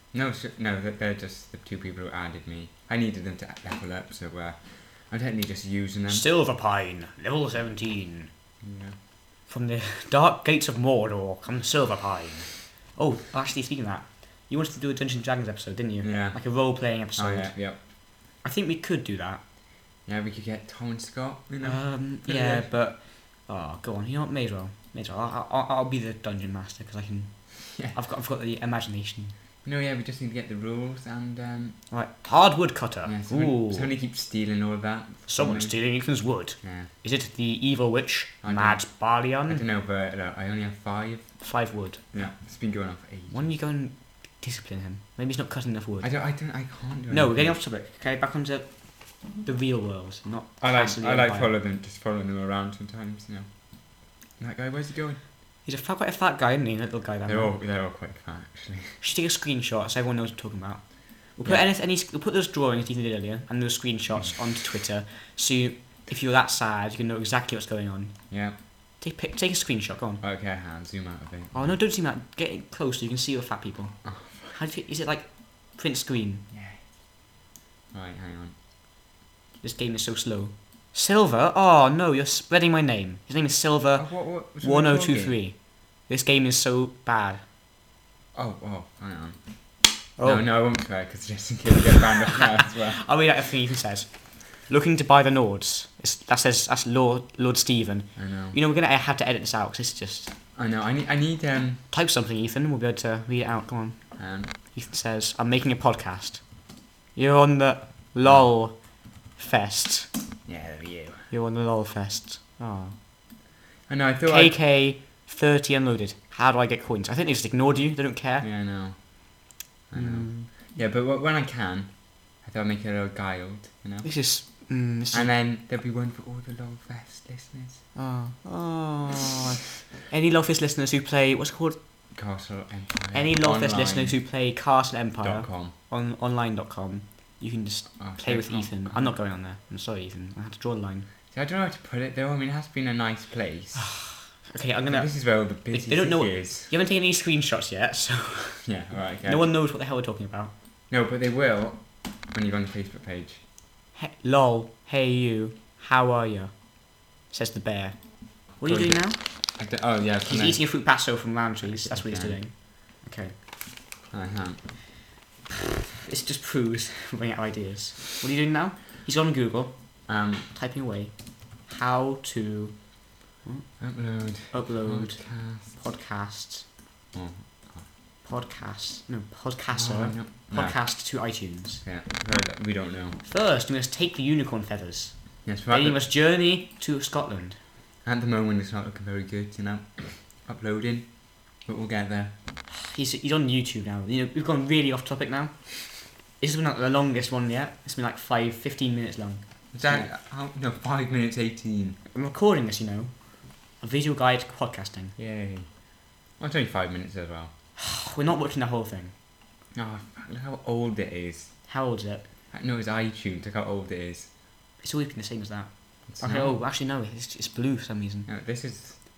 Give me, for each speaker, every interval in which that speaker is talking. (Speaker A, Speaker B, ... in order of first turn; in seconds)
Speaker A: 0.1-6.3, 8.6-9.0, 16.0-16.4, 17.2-17.8, 20.1-22.7, 29.6-31.8, 33.0-35.8, 36.6-36.9, 38.4-38.9, 39.4-41.4, 42.1-43.5, 46.0-47.6, 50.6-55.2, 57.3-59.0, 68.3-68.6, 70.2-71.7, 74.0-74.6, 76.5-76.8, 77.9-78.5, 84.0-85.4, 88.3-89.4, 90.2-93.0, 98.2-98.6, 100.6-101.8, 104.2-104.5, 110.5-111.3, 113.9-114.6, 118.4-119.4, 119.9-124.1, 125.1-127.8, 132.1-134.2, 135.2-135.7, 138.0-139.2, 141.3-143.9, 144.9-146.7, 148.7-149.4, 150.9-153.4, 158.7-160.6, 161.6-162.4, 164.1-164.6, 170.1-170.5, 173.8-175.8, 177.1-177.9, 179.7-180.8, 181.8-183.2, 185.4-186.0, 188.0-192.3, 199.7-202.0, 205.2-205.7, 206.4-207.5, 209.8-211.5, 212.5-214.3, 216.1-216.6, 218.3-219.0
Speaker B: 6.1-8.3, 9.5-17.6, 18.4-19.4, 21.6-29.4, 31.9-33.9, 35.3-39.6, 41.4-42.0, 43.3-46.1, 47.1-51.5, 55.6-57.5, 59.0-68.2, 69.0-70.2, 71.5-76.5, 79.6-87.4, 90.2-90.4, 92.3-100.3, 101.9-106.5, 107.2-108.8, 109.4-110.1, 111.3-113.0, 114.3-118.5, 119.9-120.5, 124.0-125.3, 128.0-131.8, 133.1-141.1, 143.8-148.7, 149.2-150.5, 154.0-159.2, 160.3-163.3, 166.0-169.7, 170.5-171.1, 171.7-172.8, 173.4-173.7, 174.5-176.7, 178.2-181.9, 183.2-185.2, 185.7-187.6, 192.7-200.1, 202.1-203.1, 203.8-205.2, 207.8-209.1, 211.7-212.2, 214.8-218.3